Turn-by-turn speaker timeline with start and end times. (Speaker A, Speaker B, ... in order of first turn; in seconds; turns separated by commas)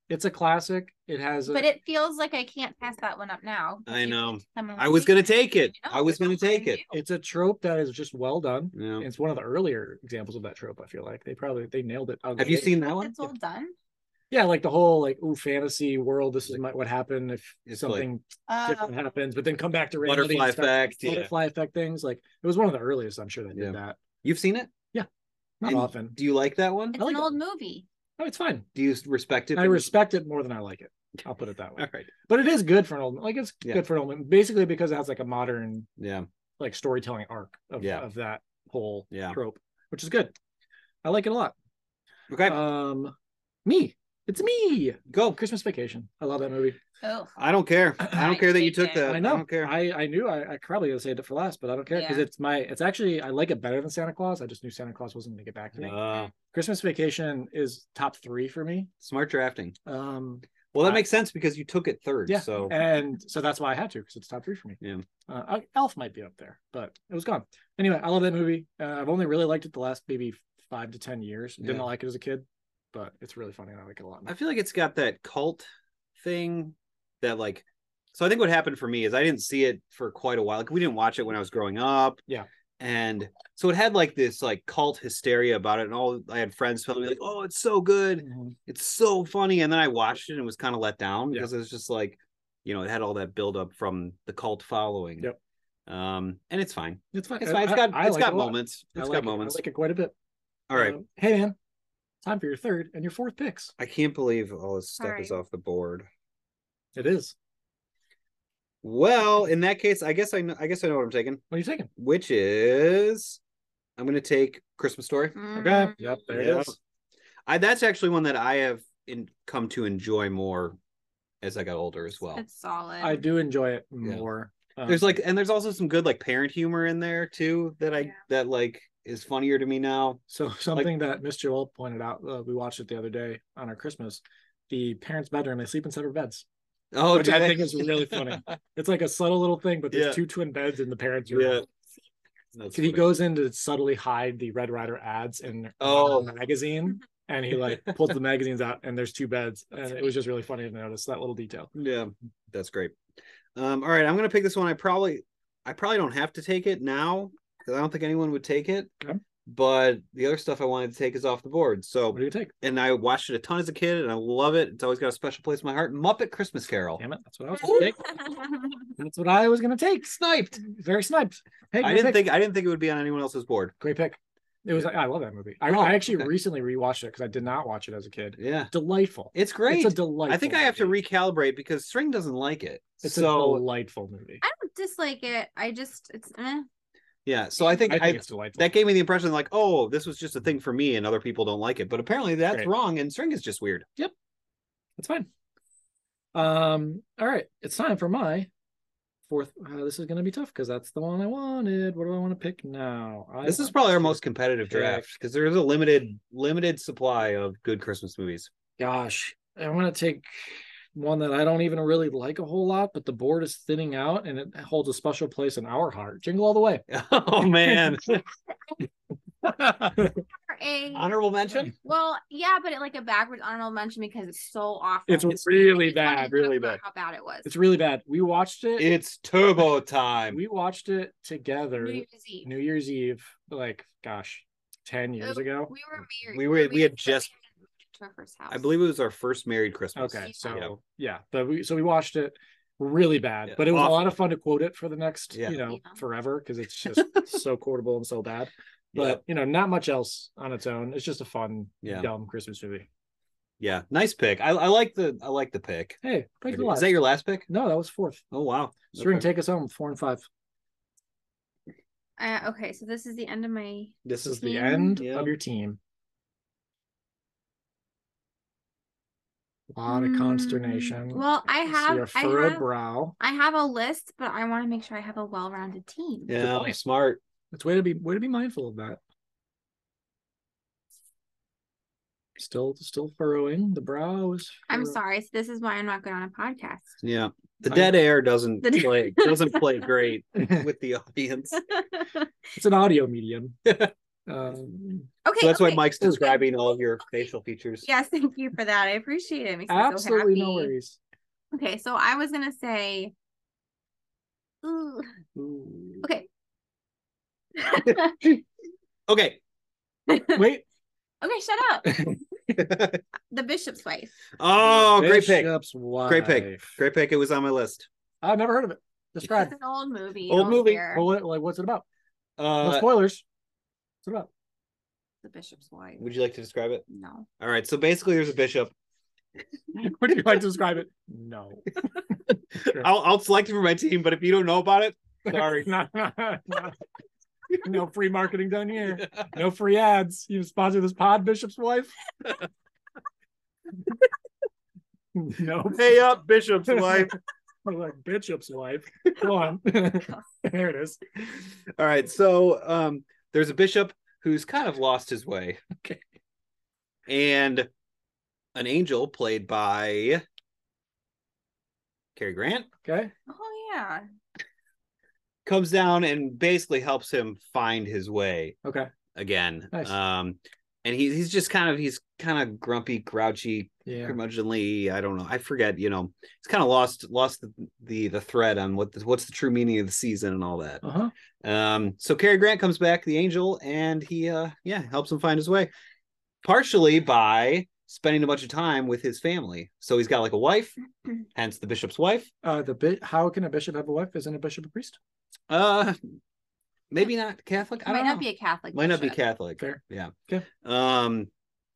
Speaker A: 0.1-1.7, Speaker B: 1.5-6.9, Speaker C: 3.9-6.8, Speaker A: 6.9-12.7, Speaker C: 8.7-9.1, Speaker C: 12.4-13.3, Speaker B: 12.4-13.8, Speaker A: 14.3-24.0, Speaker C: 17.7-18.1, Speaker B: 18.5-18.9, Speaker C: 20.0-21.3, Speaker C: 23.5-24.7, Speaker A: 25.6-26.2, Speaker C: 25.6-27.0, Speaker B: 26.9-27.9, Speaker A: 27.0-27.4, Speaker A: 28.2-28.7, Speaker C: 28.8-29.9, Speaker A: 29.6-35.9, Speaker C: 31.8-32.1, Speaker C: 36.0-36.3, Speaker A: 36.6-40.3, Speaker C: 39.1-39.4, Speaker A: 41.0-41.5, Speaker C: 42.3-42.6, Speaker A: 42.5-43.1, Speaker A: 43.6-46.8, Speaker C: 45.1-45.4, Speaker B: 47.0-47.3, Speaker C: 47.4-49.7, Speaker B: 48.1-49.2, Speaker A: 49.0-56.0, Speaker B: 51.9-52.3, Speaker C: 55.8-56.3, Speaker A: 56.5-58.9, Speaker C: 59.0-59.8, Speaker A: 59.9-61.0, Speaker C: 60.7-62.8, Speaker A: 62.3-74.3, Speaker C: 71.6-71.9, Speaker C: 74.3-82.2, Speaker C: 82.8-95.3, Speaker A: 88.2-88.6, Speaker C: 95.9-99.6, Speaker A: 97.1-100.1, Speaker C: 100.7-101.0, Speaker A: 100.7-101.6, Speaker A: 102.2-103.7, Speaker C: 103.8-106.1, Speaker B: 105.0-105.4, Speaker A: 107.0-107.3, Speaker C: 108.8-111.4, Speaker A: 111.5-111.9, Speaker C: 112.0-113.4, Speaker C: 114.0-115.4, Speaker B: 115.4-116.2, Speaker A: 115.5-116.8, Speaker C: 116.3-116.8, Speaker C: 117.5-120.8, Speaker C: 121.4-122.4, Speaker B: 122.3-123.2, Speaker A: 123.0-125.2, Speaker C: 124.9-130.2, Speaker A: 130.3-136.4, Speaker C: 136.9-138.4, Speaker A: 137.1-141.6, Speaker C: 139.9-140.2, Speaker C: 141.3-141.7, Speaker C: 142.6-143.1, Speaker A: 142.7-151.7, Speaker C: 145.8-146.3, Speaker C: 151.8-153.0, Speaker C: 153.6-158.9, Speaker C: 159.5-167.0, Speaker A: 162.1-162.5, Speaker A: 167.0-168.1, Speaker C: 167.6-167.9, Speaker B: 167.6-168.8, Speaker A: 169.0-172.2, Speaker C: 170.2-170.6, Speaker C: 171.8-173.7, Speaker A: 173.8-180.9, Speaker C: 175.7-176.3, Speaker C: 178.4-178.7, Speaker C: 179.3-183.6, Speaker A: 183.0-184.4, Speaker B: 184.4-186.7, Speaker C: 187.3-193.9, Speaker A: 187.9-188.7, Speaker A: 195.0-195.3, Speaker A: 196.3-198.5, Speaker A: 199.3-205.1, Speaker C: 203.4-208.5, Speaker A: 208.8-216.8, Speaker C: 216.9-218.2, Speaker A: 217.6-218.0, Speaker A: 219.4-220.2, Speaker B: 220.4-221.1, Speaker C: 220.9-221.7, Speaker B: 221.8-227.5, Speaker A: 225.1-226.3, Speaker C: 226.1-226.8, Speaker A: 227.4-228.9, Speaker C: 228.8-230.4, Speaker A: 230.3-235.7, Speaker B: 231.8-232.5, Speaker B: 235.2-237.4, Speaker C: 236.3-237.3, Speaker B: 237.9-238.7, Speaker C: 238.5-240.7, Speaker A: 239.9-252.9, Speaker B: 240.3-240.6, Speaker C: 243.5-244.2, Speaker C: 245.3-245.6, Speaker B: 245.7-246.0, Speaker C: 248.9-249.2, Speaker C: 251.8-252.1, Speaker C: 253.6-257.5, Speaker A: 256.0-258.2, Speaker C: 258.3-259.3, Speaker A: 258.9-260.3, Speaker B: 262.2-265.0, Speaker C: 264.1-264.4, Speaker A: 264.2-265.8, Speaker C: 265.0-265.3, Speaker A: 269.7-273.1, Speaker B: 269.9-272.6, Speaker B: 273.2-276.4, Speaker C: 276.3-277.2, Speaker A: 276.3-276.8, Speaker A: 277.5-279.0, Speaker A: 282.4-285.0, Speaker B: 284.7-287.0, Speaker C: 287.0-291.6, Speaker A: 287.7-287.9, Speaker B: 288.6-289.9, Speaker A: 290.4-290.6, Speaker B: 291.6-292.3, Speaker A: 292.6-293.6, Speaker C: 293.7-293.9, Speaker A: 294.3-295.1, Speaker B: 295.2-296.4, Speaker C: 295.4-297.9, Speaker B: 297.9-300.7, Speaker A: 299.7-301.0, Speaker B: 301.5-303.1, Speaker B: 304.6-305.1, Speaker A: 305.4-305.9, Speaker B: 307.6-308.2, Speaker C: 307.9-308.4, Speaker C: 309.1-309.4, Speaker B: 310.1-310.4, Speaker A: 310.3-310.6, Speaker B: 311.2-312.1, Speaker C: 312.6-313.0, Speaker B: 313.3-314.1, Speaker C: 314.4-315.5, Speaker A: 314.6-316.7, Speaker C: 316.1-317.9, Speaker A: 318.2-319.5, Speaker B: 319.3-321.1, Speaker C: 320.3-320.9, Speaker A: 320.8-321.9, Speaker C: 322.4-322.9, Speaker A: 322.6-323.2, Speaker A: 324.0-324.3, Speaker B: 325.2-326.1, Speaker C: 326.0-326.8, Speaker B: 326.9-327.3, Speaker C: 327.4-328.7, Speaker A: 329.7-332.9, Speaker C: 332.6-335.7, Speaker A: 335.2-336.8, Speaker A: 337.6-341.9, Speaker A: 345.1-346.0, Speaker C: 345.7-347.2, Speaker A: 346.7-351.0, Speaker C: 351.8-355.6, Speaker C: 357.1-357.7, Speaker C: 358.6-360.2, Speaker C: 362.2-362.7, Speaker A: 362.8-363.1, Speaker B: 363.3-364.1, Speaker C: 365.4-368.6, Speaker A: 368.6-368.9, Speaker C: 369.1-380.8, Speaker A: 373.9-374.2, Speaker A: 380.8-381.1, Speaker C: 381.4-385.7, Speaker C: 386.4-390.8, Speaker C: 391.4-392.3, Speaker A: 392.4-395.0, Speaker C: 395.5-396.2, Speaker C: 396.9-401.3, Speaker B: 397.8-399.2, Speaker A: 399.6-400.5